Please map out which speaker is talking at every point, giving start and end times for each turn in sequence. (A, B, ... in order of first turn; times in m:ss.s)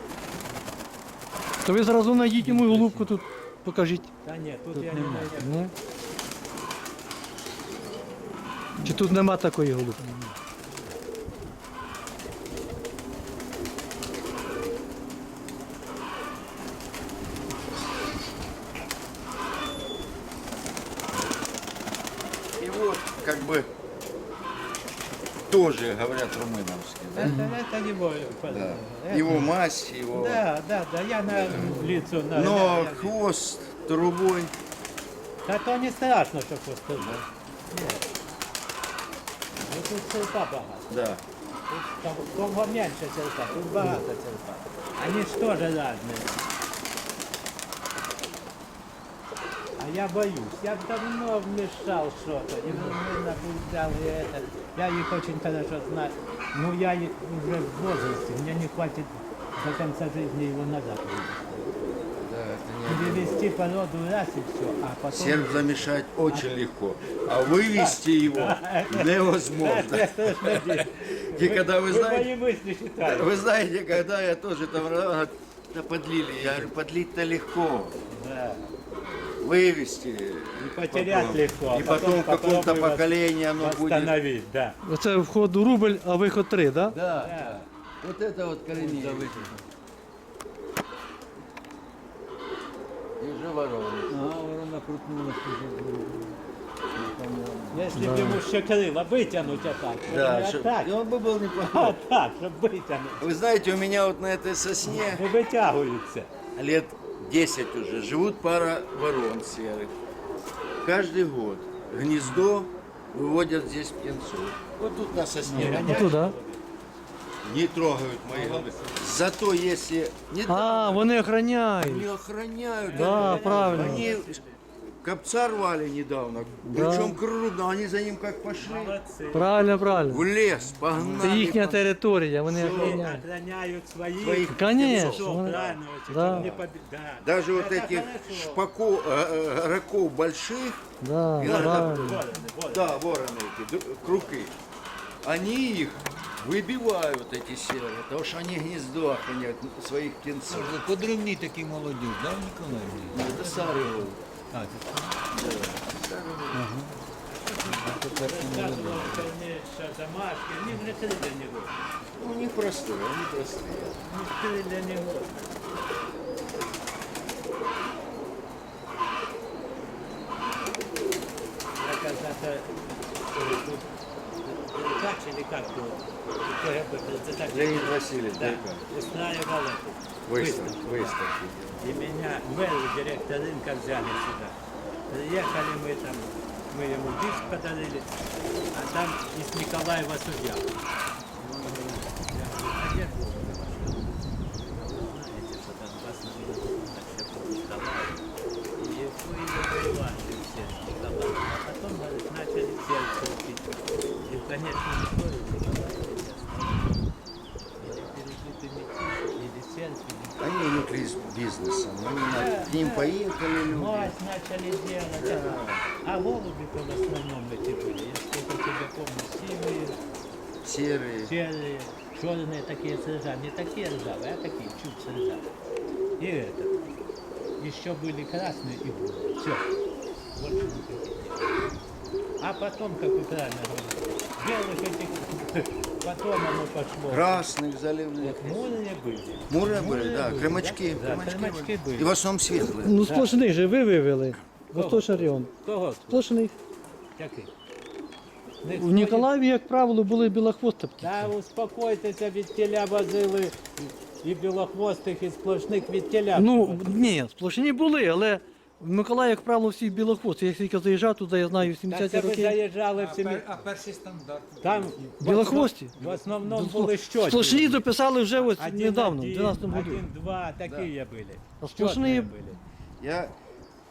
0:01.6-0:04.1 A
0:02.4-0:03.2 B
0:04.2-0:05.6 C
0:04.8-0:05.4 B
0:05.4-0:05.7 A
0:08.8-0:09.0 B
0:08.8-0:10.0 A
0:10.0-0:10.4 B
0:22.6-0:23.7 D
0:25.5-0:27.4 D
0:27.1-0:29.4 C
0:27.2-0:27.6 B
0:28.4-0:30.4 D
0:30.1-0:33.2 C
0:31.3-0:34.5 D
0:35.4-0:37.2 C
0:37.0-0:37.2 D
0:37.7-0:38.1 C
0:39.6-0:40.9 C
0:40.9-0:41.2 D
0:41.7-0:46.3 C
0:49.8-1:01.6 C
1:02.2-1:03.5 D
1:02.9-1:06.6 C
1:05.1-1:12.3 D
1:07.4-1:13.4 C
1:13.0-1:18.0 D
1:16.4-1:16.7 C
1:18.1-1:18.7 C
1:19.0-1:24.2 D
1:20.6-1:24.8 C
1:24.8-1:27.0 A
1:26.9-1:29.6 D
1:27.2-1:27.6 C
1:28.7-1:29.7 B
1:33.2-1:34.2 D
1:34.1-1:36.4 B
1:36.9-1:38.0 B
1:37.7-1:40.9 C
1:37.9-1:38.4 A
1:40.1-1:42.0 D
1:41.6-1:43.2 C
1:43.2-1:45.2 D
1:44.9-1:46.3 C
1:46.6-1:49.9 D
1:50.8-1:56.1 D
1:55.4-1:56.1 B
1:55.5-1:56.6 C
1:55.7-1:56.4 A
1:57.4-2:01.1 D
1:58.3-1:59.1 B
2:00.5-2:02.1 A
2:01.8-2:04.4 D
2:02.8-2:04.6 C
2:02.9-2:04.1 A
2:05.0-2:09.0 D
2:06.6-2:07.2 A
2:08.6-2:09.9 C
2:09.3-2:10.3 A
2:10.1-2:11.9 D
2:10.6-2:11.4 B
2:11.2-2:13.2 A
2:12.5-2:18.7 C
2:12.5-2:13.1 D
2:14.2-2:16.6 D
2:14.5-2:16.5 A
2:17.2-2:20.8 D
2:21.0-2:22.2 A
2:21.4-2:24.6 D
2:21.4-2:23.3 C
2:24.0-2:24.3 C
2:25.2-2:30.8 D
2:30.5-2:34.0 B
2:33.1-2:34.2 D
2:33.3-2:33.7 C
2:34.5-2:35.2 B
2:35.3-2:36.7 D
2:36.5-2:37.0 B
2:37.3-2:41.8 C
2:37.6-2:39.3 B
2:42.2-2:44.0 D
2:44.0-2:45.6 C
2:51.8-2:53.9 C
2:54.4-3:01.2 C
2:57.5-2:58.9 D
3:00.3-3:01.8 D
3:01.8-3:04.6 C
3:05.1-3:08.2 C
3:08.7-3:10.7 C
3:11.4-3:23.7 C
3:24.2-3:27.1 C
3:27.8-3:30.4 C
3:30.4-3:34.1 D
3:32.3-3:40.2 C
3:35.2-3:35.9 D
3:40.6-3:41.3 D
3:41.2-3:45.5 C
3:46.2-3:46.8 C
3:47.6-3:49.7 C
3:50.4-3:51.4 C
3:52.4-3:57.5 C
3:57.1-3:58.7 D
3:58.2-4:02.1 C
3:59.5-4:03.0 D
4:02.8-4:05.5 A
4:03.0-4:03.5 C
4:04.7-4:06.2 C
4:06.1-4:06.6 A
4:07.2-4:07.5 C
4:08.6-4:09.3 C
4:08.7-4:11.1 A
4:11.0-4:17.0 C
4:16.3-4:22.6 A
4:21.9-4:23.6 C
4:22.9-4:25.1 B
4:24.6-4:32.6 C
4:25.2-4:30.0 A
4:30.6-4:30.9 D
4:31.6-4:32.3 A
4:33.0-4:33.3 D